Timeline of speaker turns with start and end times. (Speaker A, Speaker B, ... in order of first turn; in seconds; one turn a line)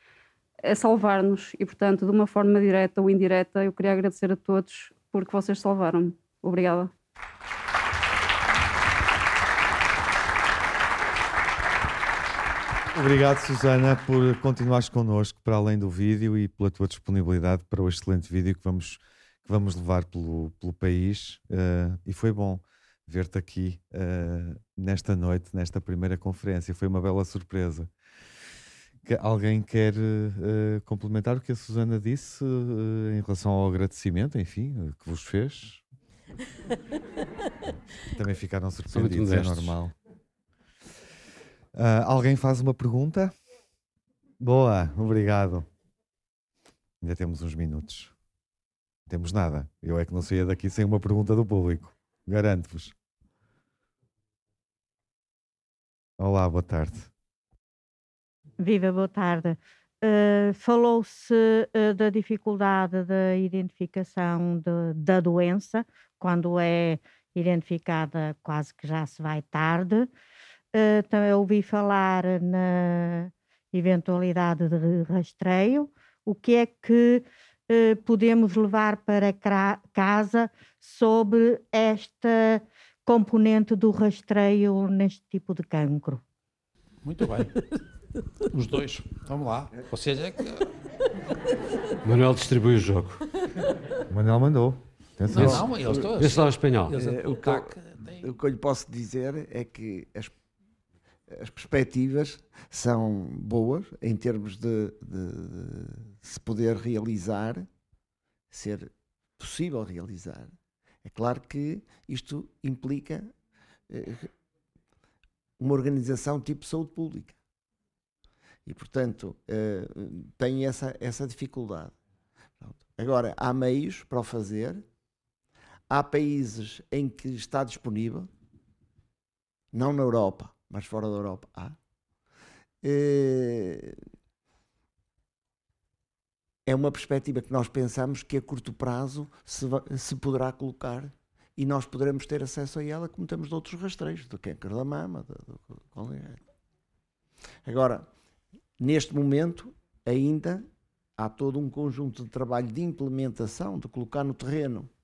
Speaker A: 0.6-6.9
Speaker B: 12.9-27.9
Speaker B: 29.0-35.8
Speaker B: 38.0-39.9
Speaker C: 38.9-39.7
Speaker B: 41.7-43.3
Speaker B: 44.4-45.6
Speaker B: 47.0-48.1
Speaker B: 49.1-52.9
Speaker B: 56.2-57.1
Speaker D: 58.6-70.1
Speaker D: 70.7-86.2
Speaker E: 87.0-87.5
Speaker E: 88.5-90.7
Speaker C: 92.0-93.2
Speaker B: 94.1-95.7
Speaker E: 95.3-98.3
Speaker C: 95.3-97.0
Speaker F: 96.9-100.3
Speaker F: 101.3-107.7
Speaker F: 108.5-110.5
Speaker F: 111.0-113.3
Speaker F: 113.9-114.3
Speaker F: 115.6-117.4
Speaker F: 118.7-121.9
Speaker F: 122.6-124.8
Speaker F: 125.9-128.3
Speaker F: 129.7-131.8
Speaker F: 132.8-133.9
Speaker F: 136.7-146.4
Speaker F: 147.6-148.1
Speaker F: 148.8-150.6
Speaker F: 151.2-154.9